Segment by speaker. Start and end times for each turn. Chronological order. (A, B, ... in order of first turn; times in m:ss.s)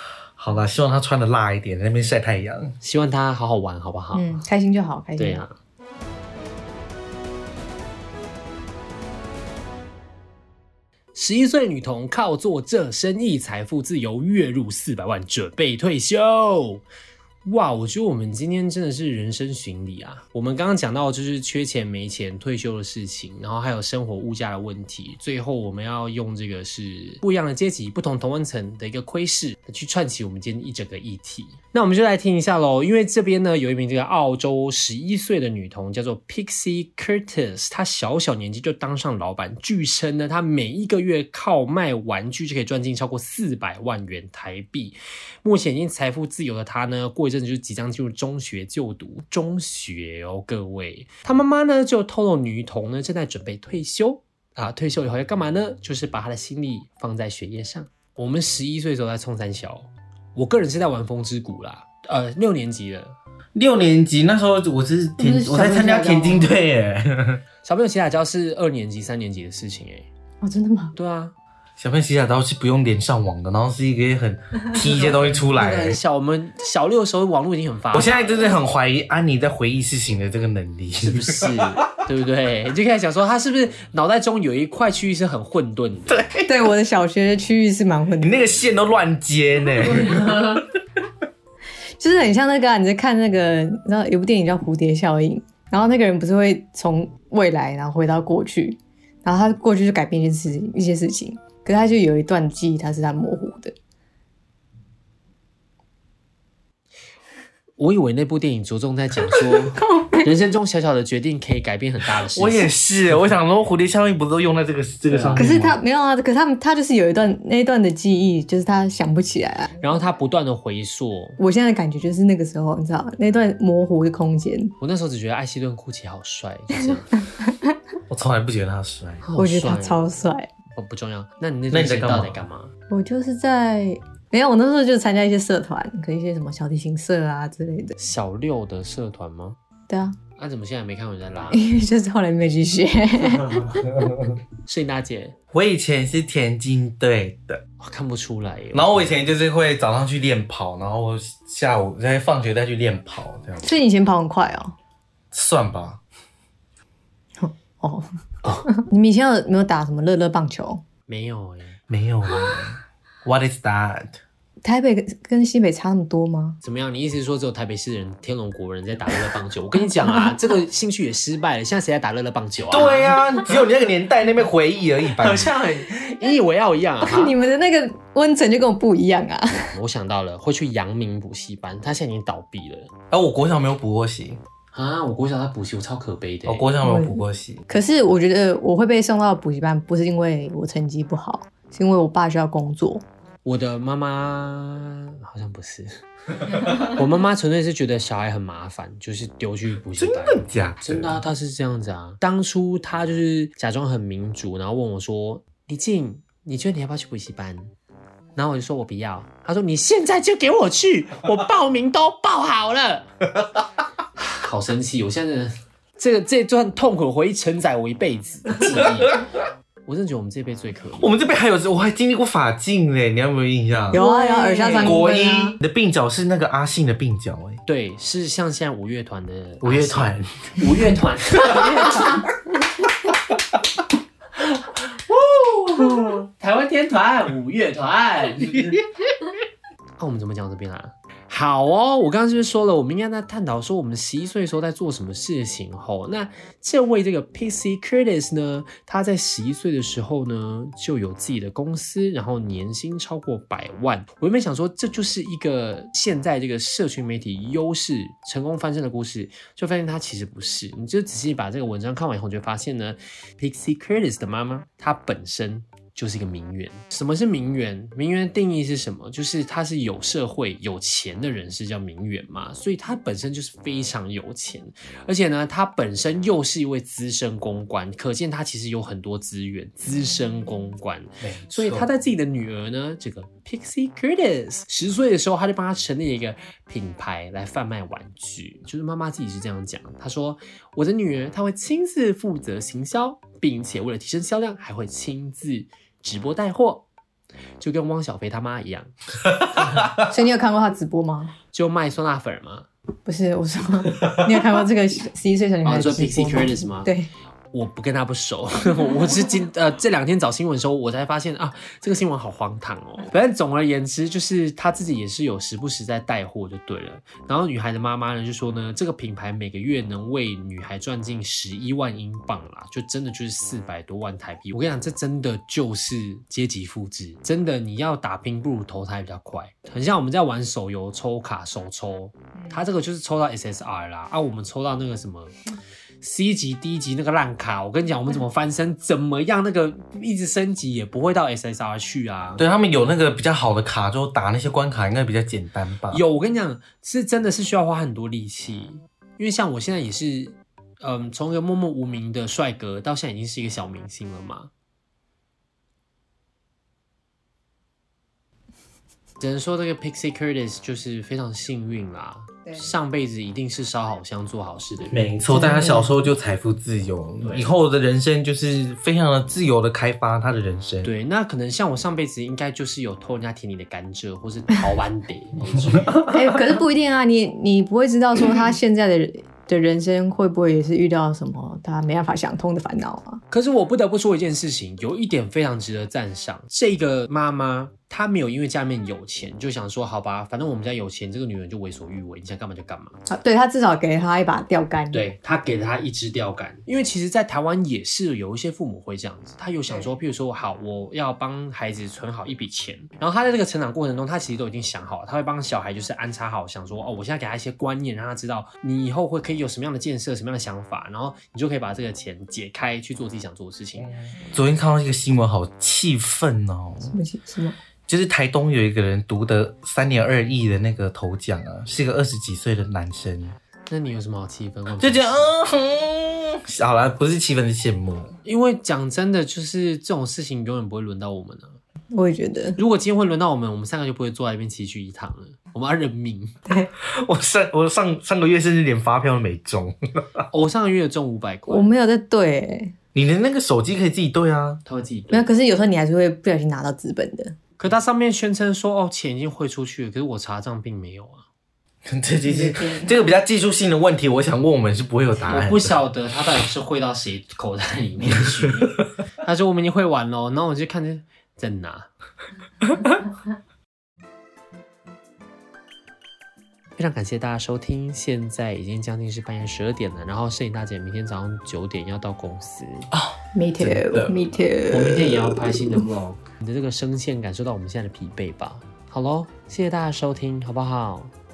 0:00.4-0:02.7 A
0:02.8-0:04.4 B
0:04.1-0:05.4 C
0:05.2-0:05.5 B
0:11.1-0:16.8 B
0:17.4-1:03.1 B
1:03.5-1:07.4 A
1:05.2-1:06.5 C
1:07.6-1:10.1 B
1:10.4-1:10.9 C
1:10.9-1:11.3 B
1:11.8-1:16.0 A
1:15.3-1:18.4 B
1:17.9-1:21.8 A
1:21.0-1:26.2 B
1:26.1-1:26.5 A
1:26.4-1:28.5 C
1:28.2-1:30.6 A
1:32.0-1:43.7 C
1:47.8-1:52.7 B
1:49.9-1:50.2 C
1:52.3-1:55.8 A
1:55.1-1:55.6 B
1:55.4-1:59.8 C
1:59.8-2:01.4 B
2:01.4-2:04.7 C
2:04.8-2:07.2 B
2:07.1-2:07.7 C
2:08.1-2:09.2 A
2:09.2-2:10.0 B
2:09.4-2:10.5 C
2:10.7-2:12.7 B
2:11.7-2:12.3 A
2:12.9-2:18.0 C
2:18.0-2:19.6 B
2:19.9-2:20.2 C
2:20.4-2:21.6 B
2:21.5-2:24.0 C
2:23.4-2:24.4 A
2:24.6-2:25.4 B
2:25.5-2:27.6 A
2:27.8-2:29.1 B
2:28.7-2:33.8 A
2:33.6-2:34.7 C
2:35.3-2:36.0 A
2:37.4-2:38.1 C
2:38.7-2:40.8 C
2:41.1-2:41.8 B
2:41.9-2:44.2 A
2:44.6-2:46.6 C
2:46.6-2:53.2 B
2:52.7-2:55.5 A
2:55.2-2:57.3 B
2:57.0-2:59.7 C
2:59.7-3:02.9 B
3:03.1-3:04.4 A
3:04.7-3:06.7 B
3:06.4-3:07.6 A
3:06.8-3:13.0 C
3:13.4-3:15.9 B
3:16.4-3:27.7 B
3:20.0-3:21.2 A
3:28.4-3:33.1 B
3:34.4-3:39.2 B
3:38.6-3:39.2 A
3:39.8-3:41.1 B
3:41.0-3:44.0 A
3:43.9-3:45.0 B
3:43.9-3:45.6 C
3:44.8-3:47.6 A
3:47.6-3:52.3 B
3:49.6-3:50.8 A
3:51.4-3:51.7 A
3:55.2-3:58.8 B
4:00.0-4:56.8 B
4:41.2-4:41.9 A
4:57.6-4:58.9 B
4:59.4-4:59.9 A
4:59.6-4:59.8 B
5:00.0-5:01.3 C
5:01.5-5:02.7 B
5:03.0-5:07.1 C
5:05.6-5:06.9 B
5:07.5-5:35.4 B
5:36.0-5:42.4 B
5:42.4-5:46.0 A
5:45.9-5:54.5 B
5:59.2-6:05.0 B
6:04.9-6:10.9 A
6:05.3-6:06.1 C
6:07.2-6:07.5 B
6:10.8-6:16.0 B
6:15.8-6:16.2 A
6:16.0-6:23.2 C
6:23.3-6:33.0 B
6:33.1-6:35.1 C
6:34.9-6:53.9 B
6:53.8-6:56.9 A
6:56.9-6:57.6 C
6:57.9-7:03.4 A
7:03.7-7:05.3 B
7:04.8-7:08.1 A
7:08.2-7:11.6 B
7:11.9-7:12.6 C
7:12.6-7:16.4 B
7:16.8-7:20.3 A
7:20.3-7:21.7 B
7:21.5-7:22.7 C
7:22.9-7:24.6 A
7:24.6-7:25.3 B
7:25.1-7:27.4 C
7:27.6-7:31.2 B
7:31.8-7:35.8 A
7:32.3-7:32.9 C
7:35.3-7:41.9 B
7:38.2-7:38.7 A
7:46.8-7:52.9 B
7:52.9-7:54.1 A
7:53.3-7:55.8 C
7:54.7-8:01.1 B